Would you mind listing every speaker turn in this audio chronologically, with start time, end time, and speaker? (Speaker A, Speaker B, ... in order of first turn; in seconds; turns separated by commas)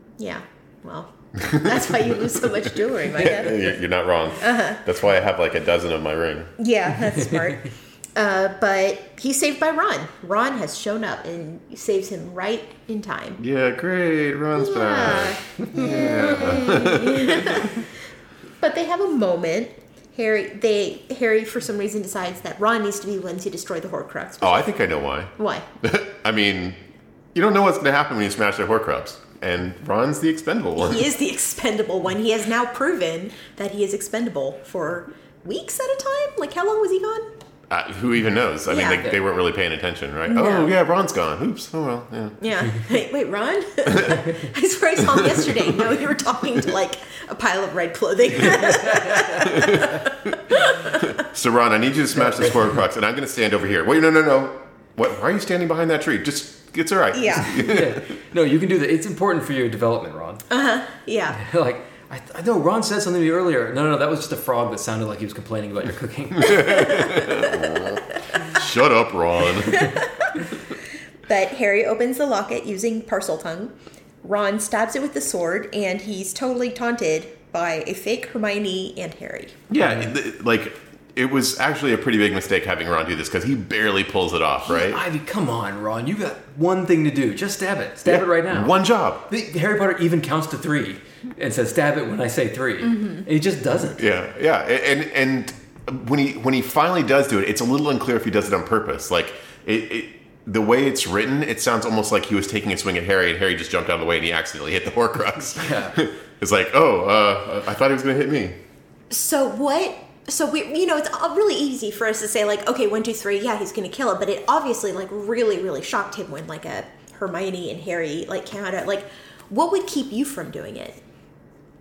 Speaker A: 0.2-3.8, Speaker B: 1.4-6.5, Speaker A: 4.4-4.8, Speaker A: 6.6-13.4, Speaker B: 13.4-17.7, Speaker A: 14.6-17.9, Speaker C: 15.7-16.2, Speaker A: 18.6-24.7, Speaker B: 24.4-26.8, Speaker A: 25.4-25.7, Speaker B: 27.3-31.1, Speaker A: 30.8-37.3, Speaker B: 37.7-42.4, Speaker A: 38.7-39.1, Speaker A: 40.3-40.7, Speaker A: 42.4-51.2, Speaker B: 43.9-44.2, Speaker B: 45.2-45.4, Speaker C: 48.7-49.3, Speaker B: 49.4-49.9, Speaker B: 50.9-58.0, Speaker C: 52.2-52.8, Speaker A: 57.1-57.8, Speaker C: 57.6-60.5, Speaker A: 60.5-61.4, Speaker C: 61.3-67.2, Speaker B: 66.4-69.9, Speaker A: 66.5-68.2, Speaker A: 69.7-70.3, Speaker A: 71.3-79.6, Speaker B: 79.7-85.0, Speaker C: 79.8-80.1, Speaker C: 84.7-94.0, Speaker B: 88.0-89.2, Speaker A: 92.9-93.2, Speaker B: 94.0-108.6, Speaker C: 105.6-106.0, Speaker A: 109.1-121.0